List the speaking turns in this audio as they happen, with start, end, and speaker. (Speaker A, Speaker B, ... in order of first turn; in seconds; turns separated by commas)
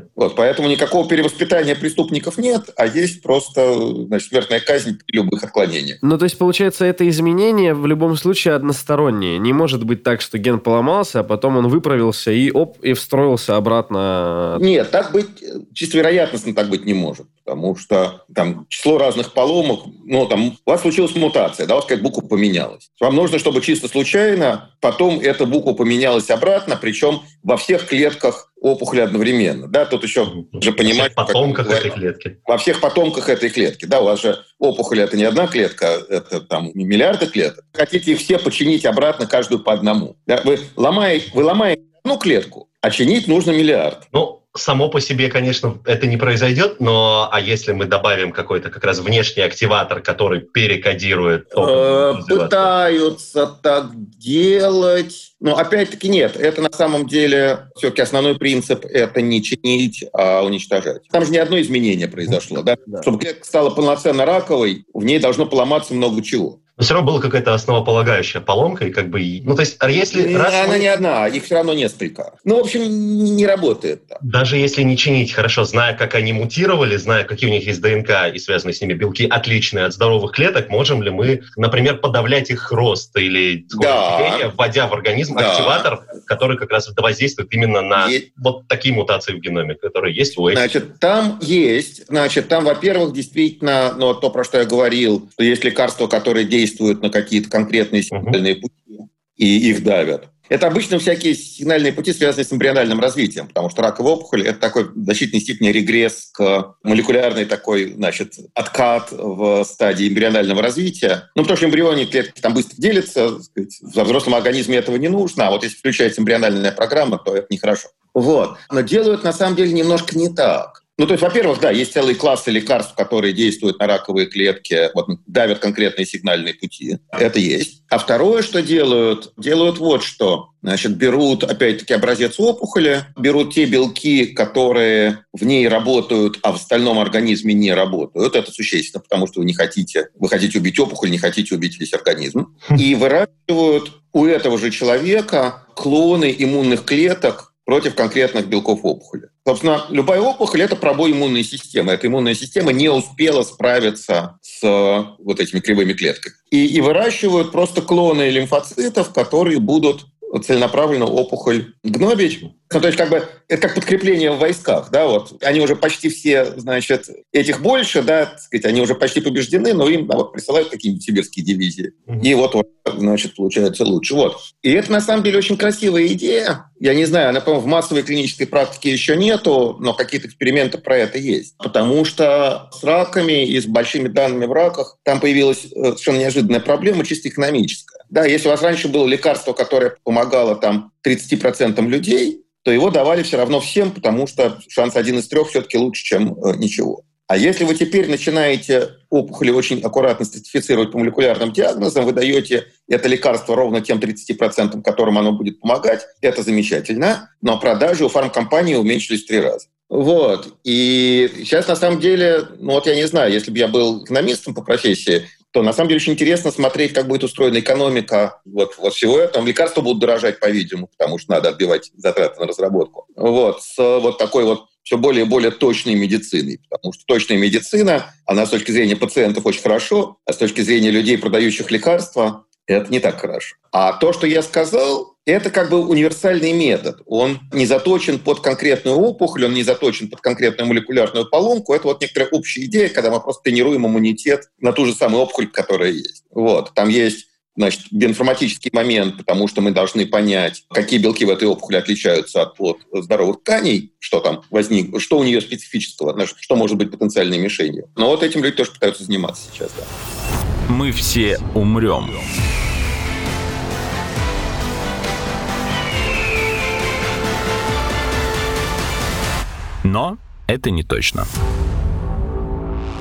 Speaker A: 0.1-6.0, Speaker B: 6.0-14.6, Speaker A: 14.5-31.9, Speaker C: 30.3-32.3, Speaker A: 32.5-44.0, Speaker C: 44.1-52.7, Speaker A: 51.5-66.6, Speaker C: 66.8-70.9, Speaker A: 70.1-74.2, Speaker C: 74.2-90.7, Speaker A: 83.7-84.5, Speaker A: 85.3-85.9, Speaker A: 87.9-88.2, Speaker A: 90.5-259.9, Speaker C: 98.1-98.4, Speaker D: 260.7-262.3, Speaker D: 269.8-271.3